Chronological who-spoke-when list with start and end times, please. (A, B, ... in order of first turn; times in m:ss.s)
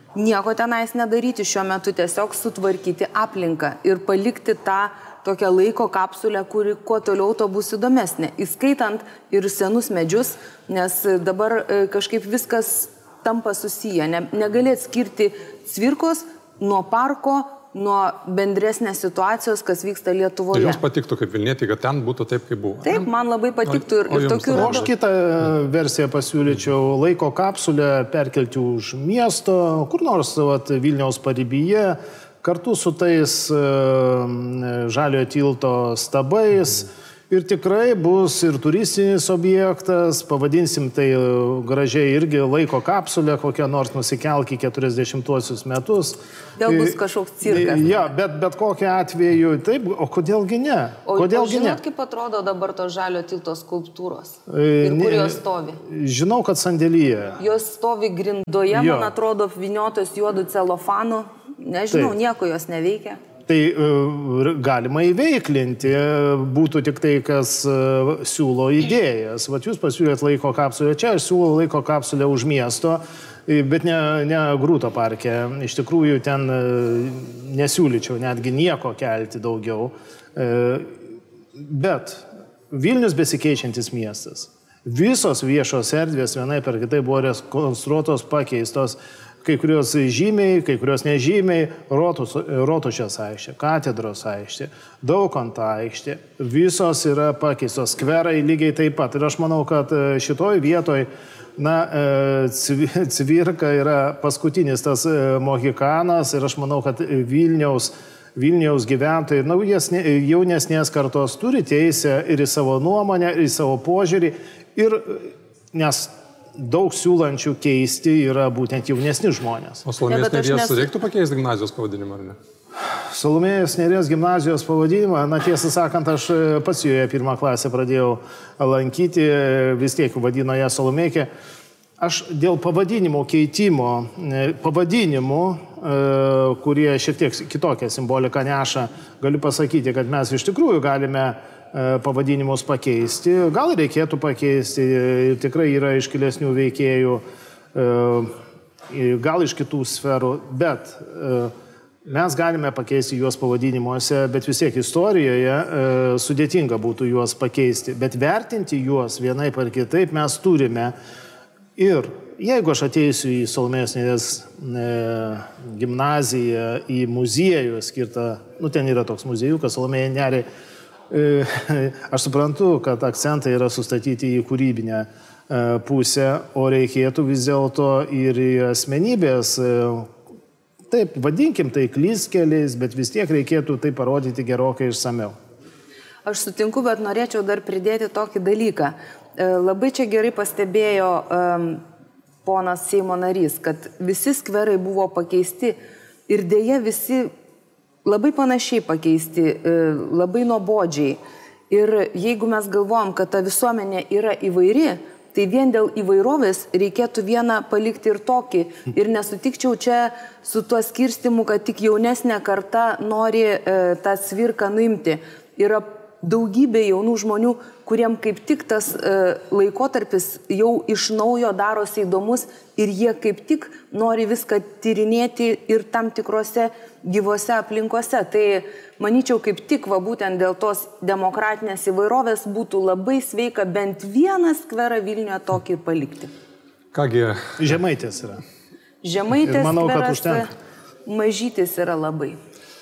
0:00.2-0:20.8 A
0:20.5-0:23.1 B
0:22.8-0:24.9 A
0:23.7-0:24.9 B
0:24.6-0:51.8 C
0:46.6-0:48.1 A
0:51.1-0:55.8 A
0:54.5-0:57.4 C
0:57.4-1:03.2 A
0:58.7-0:59.1 C
1:01.9-1:02.2 C
1:03.5-1:21.0 C
1:21.6-1:59.8 C
1:59.8-2:02.4 B
2:00.1-2:00.9 A
2:03.1-2:11.3 C
2:12.0-2:27.2 C
2:27.7-2:28.3 C
2:28.9-2:31.5 C
2:32.0-2:40.9 C
2:41.8-2:50.5 C
2:51.1-3:00.1 C
3:00.9-3:05.3 C
3:06.2-3:11.8 A
3:12.4-3:15.8 A
3:16.3-3:17.3 A
3:18.0-3:21.2 A
3:21.7-3:56.3 A
3:56.9-3:57.6 B
3:57.6-3:58.4 C
3:59.0-4:00.5 A
3:59.4-4:00.5 C
4:01.1-4:02.4 A